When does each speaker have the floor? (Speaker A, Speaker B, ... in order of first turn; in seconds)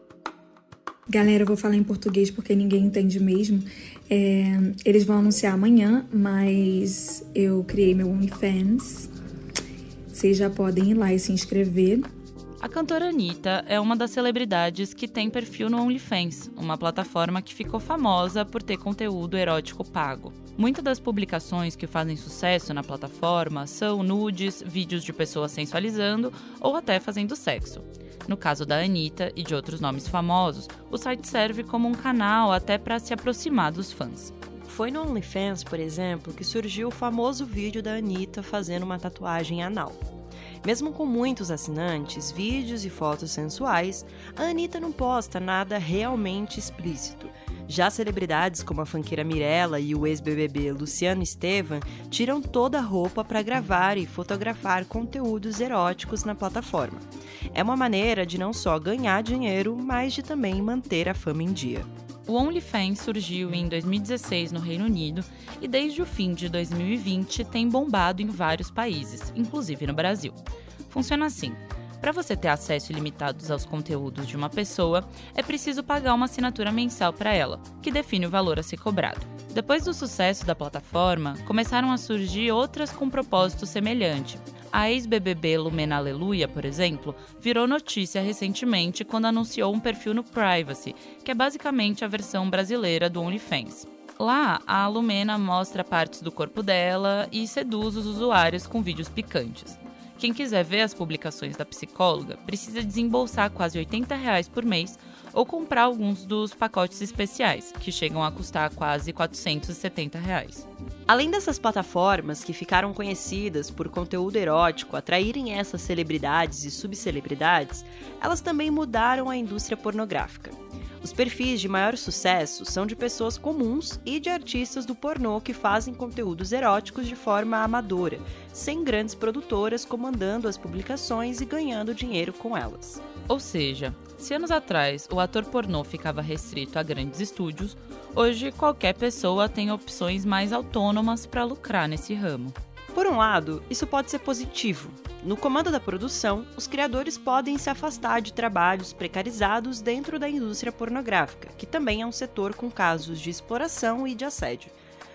Speaker A: 1.1-9.1, 10.1-12.1
Speaker B: 12.6-34.3, 62.3-110.7, 133.3-142.6
Speaker C: 34.6-40.0, 40.6-61.9, 111.1-133.0, 142.9-154.8